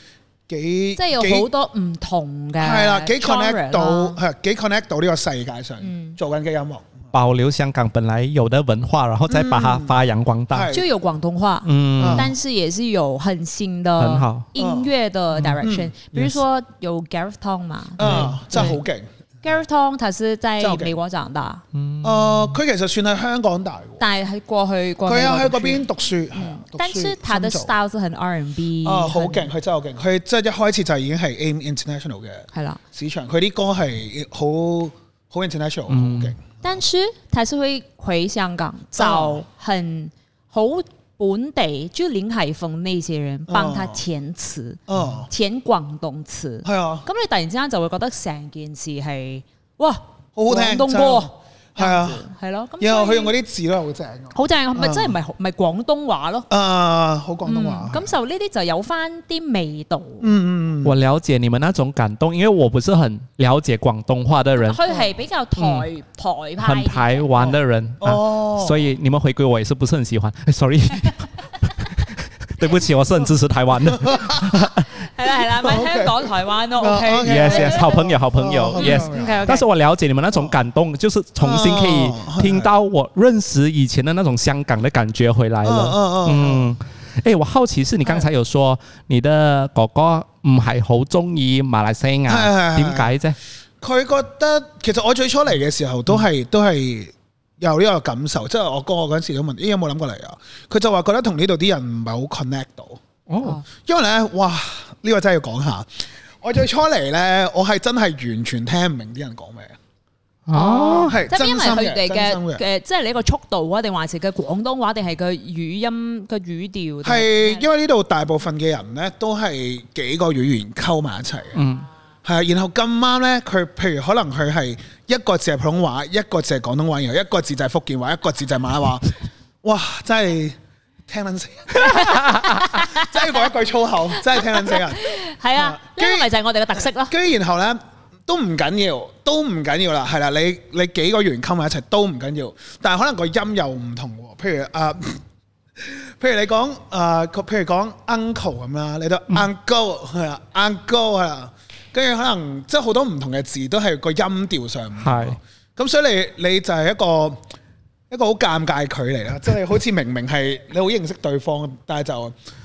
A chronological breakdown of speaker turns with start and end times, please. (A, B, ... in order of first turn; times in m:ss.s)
0:00.5-0:01.5 A
0:01.0-0:04.2 B
0:02.6-0:06.9 A
0:05.8-0:06.2 B
0:07.1-0:10.7 C
0:09.3-0:10.0 A
0:10.5-0:10.9 A
0:10.7-0:18.8 B
0:11.6-0:12.3 C
0:12.0-0:12.3 A
0:14.0-0:14.5 C
0:14.6-0:14.9 A
0:15.3-0:16.4 C
0:15.6-0:15.9 A
0:18.0-0:19.1 A
0:18.0-0:18.3 C
0:19.4-0:21.6 B
0:20.6-0:20.9 A
0:21.7-0:22.6 C
0:22.0-0:24.0 A
0:24.0-0:29.5 B
0:25.0-0:27.7 A
0:28.8-0:36.5 A
0:32.5-0:32.8 B
0:35.9-0:36.4 C
0:36.6-0:53.3 B
0:39.0-0:39.4 A
0:43.5-0:44.0 A
0:44.9-0:45.3 A
0:46.6-0:47.1 A
0:50.4-0:52.2 A
0:52.8-0:55.2 A
0:54.3-0:56.5 B
0:56.5-0:58.1 A
0:57.4-1:00.3 B
1:00.2-1:00.9 A
1:00.8-1:04.8 C
1:04.6-1:07.3 B
1:05.6-1:05.9 C
1:06.6-1:14.9 C
1:07.4-1:08.9 A
1:13.9-1:14.6 A
1:14.9-1:17.9 B
1:15.5-1:16.2 A
1:16.8-1:19.5 A
1:17.2-1:33.4 C
1:18.8-1:19.6 B
1:21.4-1:22.7 A
1:25.6-1:26.7 A
1:32.3-1:33.1 A
1:33.8-1:43.0 A
1:43.3-1:43.6 C
1:43.8-1:45.9 A
1:46.4-1:49.8 A
1:50.5-1:51.2 C
1:50.5-1:57.6 B
1:51.1-1:52.6 A
1:57.0-2:01.6 A
2:01.5-2:01.8 C
2:02.2-2:16.3 A
2:11.7-2:13.3 B
2:12.2-2:12.5 C
2:14.3-2:17.1 B
2:17.0-2:25.2 A
2:25.8-2:37.4 A
2:35.0-2:35.4 C
2:38.1-2:42.3 A